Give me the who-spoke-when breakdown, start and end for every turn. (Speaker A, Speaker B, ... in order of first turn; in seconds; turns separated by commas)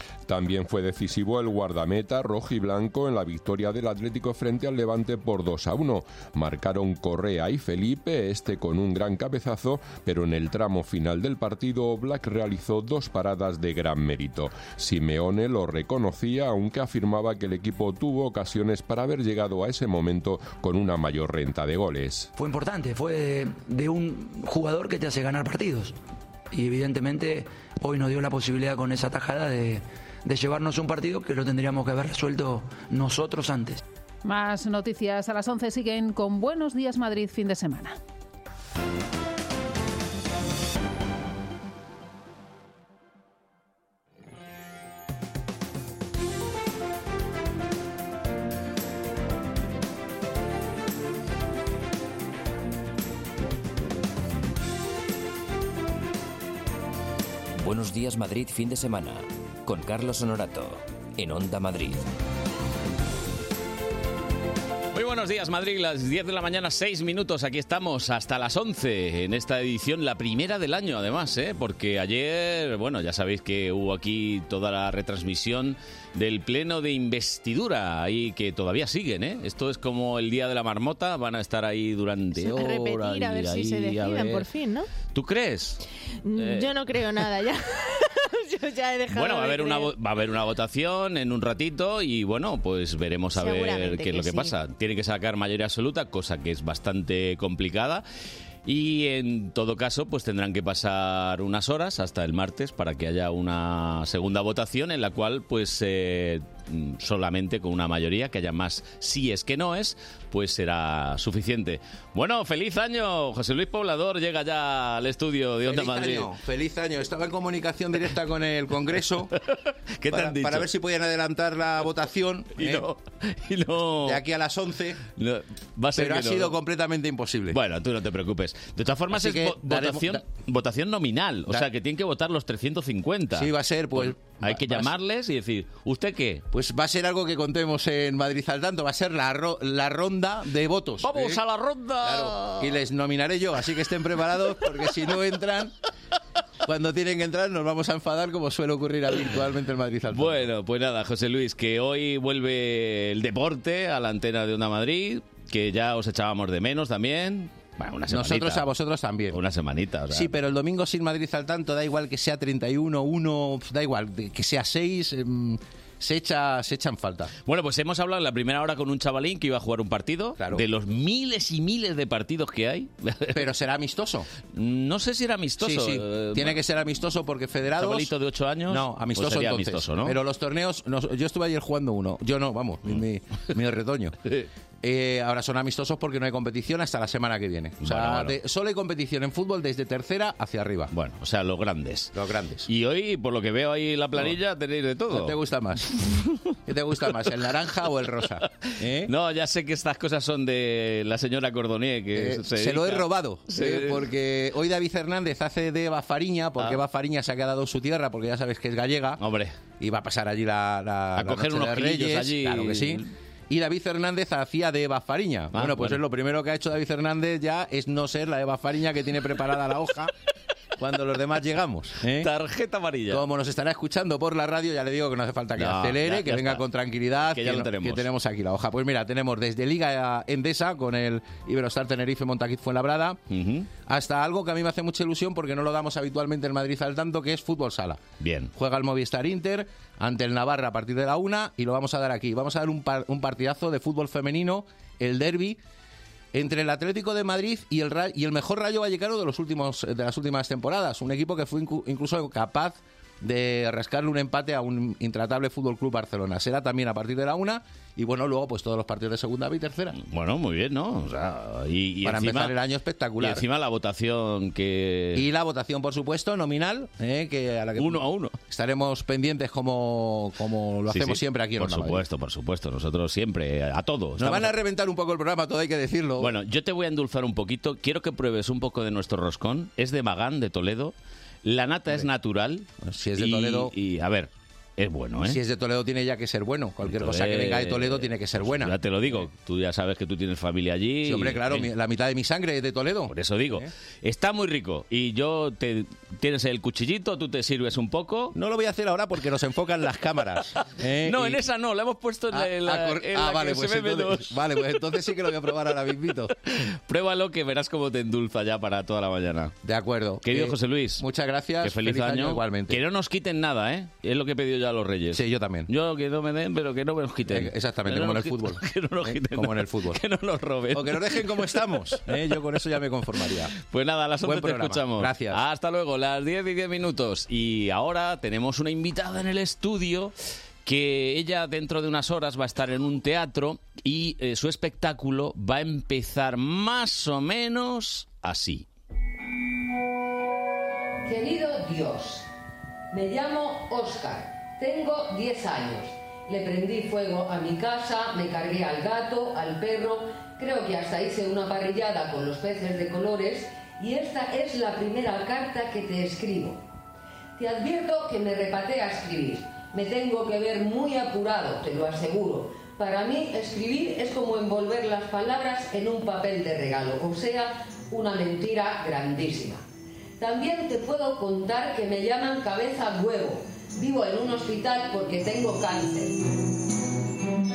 Speaker A: 0.3-22.3, Speaker B: 22.4-25.9, Speaker B: 26.5-33.8, Speaker C: 34.2-38.0, Speaker D: 57.6-62.0, Speaker E: 64.9-84.5, Speaker F: 82.4-84.9, Speaker E: 85.1-85.8, Speaker F: 86.2-89.9, Speaker E: 86.4-86.7, Speaker E: 89.1-98.0, Speaker F: 93.3-94.5, Speaker E: 98.7-116.3, Speaker G: 115.7-119.3, Speaker E: 120.0-120.7, Speaker G: 120.1-122.8, Speaker E: 122.6-124.2, Speaker G: 124.0-125.0, Speaker E: 125.2-126.6, Speaker G: 126.0-127.6, Speaker E: 127.5-136.4, Speaker G: 129.1-130.2, Speaker G: 133.3-134.9, Speaker G: 136.5-141.4, Speaker E: 141.0-142.8, Speaker G: 142.0-145.7, Speaker G: 146.7-150.4, Speaker E: 150.1-158.7, Speaker G: 158.1-159.4, Speaker E: 159.3-160.4, Speaker G: 160.1-167.3, Speaker E: 167.4-173.5, Speaker G: 170.4-170.6, Speaker G: 173.3-174.3, Speaker E: 174.5-176.6, Speaker G: 175.6-178.1, Speaker E: 177.7-180.2, Speaker G: 178.7-184.2, Speaker G: 184.8-190.9, Speaker E: 187.8-188.4, Speaker E: 190.9-195.4, Speaker G: 192.2-192.7, Speaker G: 195.1-195.9, Speaker G: 196.7-199.1, Speaker E: 199.1-204.1, Speaker G: 202.2-209.2, Speaker E: 209.2-209.6, Speaker G: 209.8-220.1, Speaker E: 211.1-213.1, Speaker E: 215.5-216.0, Speaker G: 220.8-222.3, Speaker E: 222.0-223.2, Speaker G: 223.1-233.2, Speaker E: 225.6-226.6, Speaker E: 227.2-228.1, Speaker E: 233.3-233.7, Speaker G: 233.8-238.0, Speaker E: 238.2-238.5, Speaker G: 238.6-245.6, Speaker G: 246.3-260.0, Speaker E: 259.9-262.6, Speaker G: 262.1-263.4, Speaker E: 263.2-265.3, Speaker G: 265.2-272.0, Speaker E: 267.8-268.4, Speaker E: 270.9-274.6, Speaker G: 274.2-276.3, Speaker E: 276.2-285.4, Speaker G: 282.8-283.7, Speaker G: 285.2-289.3, Speaker E: 286.8-291.7, Speaker G: 291.1-293.7, Speaker E: 293.1-298.3, Speaker G: 298.3-301.4, Speaker E: 301.0-304.8, Speaker G: 302.3-306.3, Speaker E: 306.5-309.6, Speaker G: 309.6-312.8, Speaker E: 310.2-311.1, Speaker E: 311.6-322.4, Speaker G: 315.1-315.7, Speaker G: 317.3-320.0, Speaker G: 320.7-323.5, Speaker E: 323.1-330.1, Speaker G: 324.2-325.4, Speaker E: 330.6-338.7, Speaker H: 341.1-342.3, Speaker H: 342.9-356.6, Speaker H: 357.4-369.6, Speaker H: 370.2-376.2